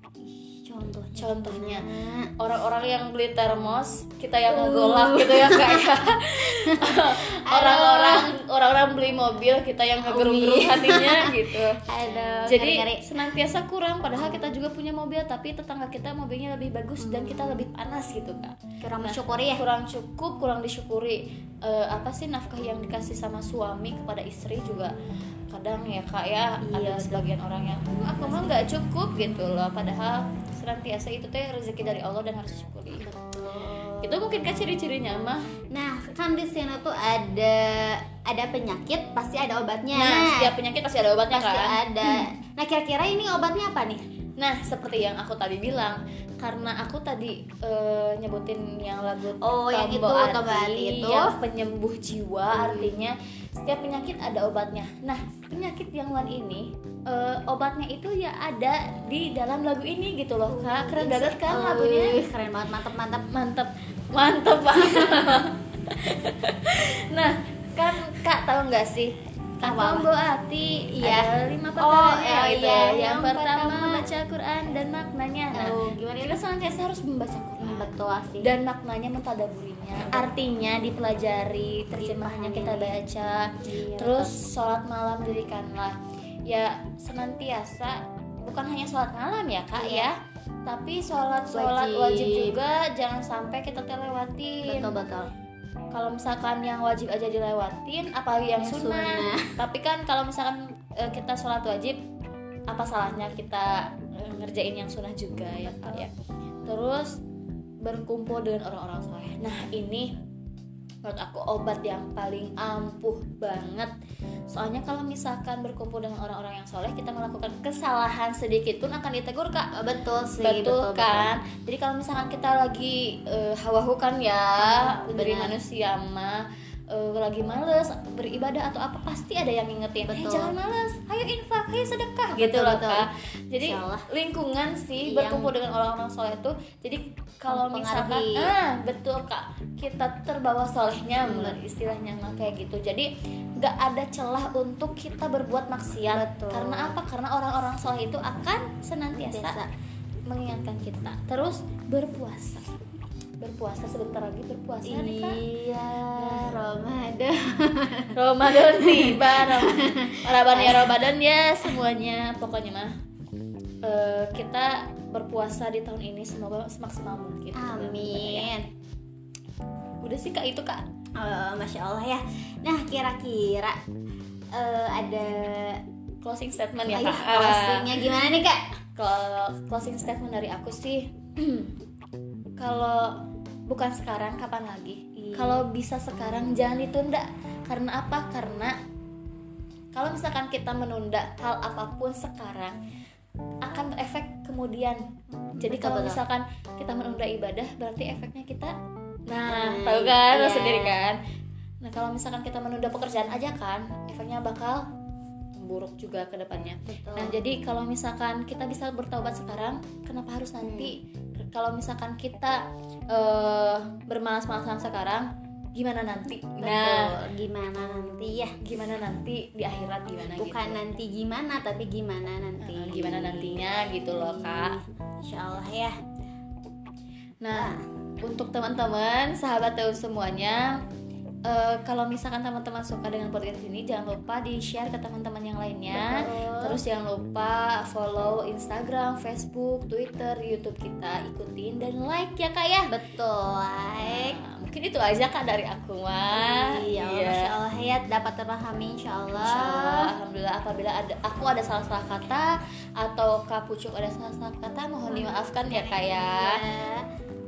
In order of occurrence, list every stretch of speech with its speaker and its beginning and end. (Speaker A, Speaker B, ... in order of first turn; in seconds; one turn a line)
Speaker A: 0.2-2.3
Speaker B: 1.2-11.8
Speaker A: 4.5-5.8
Speaker A: 6.7-8.3
Speaker A: 10.0-11.3
Speaker A: 11.8-13.1
Speaker B: 12.4-24.9
Speaker A: 17.0-17.7
Speaker A: 18.8-19.6
Speaker B: 25.5-33.1
Speaker A: 26.6-27.3
Speaker A: 27.9-28.6
Speaker A: 32.9-34.2
Speaker B: 34.0-35.5
Speaker A: 35.7-40.5
Speaker B: 39.9-42.3
Speaker A: 41.3-44.0
Speaker B: 44.4-62.2
Speaker A: 49.4-51.3
Speaker A: 52.5-53.0
Speaker A: 60.5-63.3
Speaker B: 63.3-90.2
Speaker A: 69.6-70.1
Speaker A: 71.0-74.1
Speaker A: 75.5-76.4
Speaker A: 77.6-78.5
Speaker A: 82.0-83.0
Speaker A: 83.6-84.3
Speaker A: 89.8-90.1
Speaker B: 90.7-95.0
Speaker A: 91.5-92.6
Speaker A: 94.7-95.3
Speaker B: 95.9-102.0
Speaker A: 98.6-99.5
Speaker B: 102.7-106.1
Speaker B: 106.6-107.2
Speaker B: 107.8-110.1
Speaker B: 111.0-113.9
Speaker B: 114.5-119.7
Speaker A: 119.8-121.3
Speaker B: 120.4-149.6
Speaker A: 124.6-125.5
Speaker A: 130.1-130.5
Speaker A: 132.3-133.1
Speaker A: 133.6-134.1
Speaker A: 135.0-135.5
Speaker A: 137.5-138.5
Speaker A: 141.2-141.6
Speaker A: 146.1-147.0
Speaker A: 149.1-149.7
Speaker B: 150.3-152.7
Speaker B: 153.4-155.4
Speaker A: 154.8-161.0
Speaker B: 156.2-156.6
Speaker B: 158.2-162.9
Speaker B: 163.8-168.5
Speaker A: 167.6-168.7
Speaker B: 170.0-170.8
Speaker A: 171.2-173.8
Speaker A: 174.6-175.8
Speaker B: 176.2-177.9
Speaker A: 176.9-178.6
Speaker B: 179.0-181.8
Speaker B: 182.6-183.2
Speaker B: 183.7-188.8
Speaker A: 185.3-185.7
Speaker B: 189.9-192.8
Speaker B: 193.7-195.0
Speaker A: 195.5-196.2
Speaker B: 195.6-198.7
Speaker B: 199.3-201.2
Speaker A: 199.5-201.0
Speaker B: 201.8-204.9
Speaker B: 205.6-211.0
Speaker A: 206.9-207.4
Speaker A: 210.6-210.9
Speaker B: 211.5-217.1
Speaker A: 216.6-218.5
Speaker B: 218.6-220.8
Speaker A: 220.4-225.9
Speaker B: 222.6-224.8
Speaker B: 227.4-230.8
Speaker A: 227.5-227.8
Speaker B: 231.5-242.9
Speaker A: 235.9-236.8
Speaker A: 242.9-244.4
Speaker B: 244.0-247.5
Speaker A: 246.3-250.1
Speaker B: 249.4-256.6
Speaker A: 255.1-257.1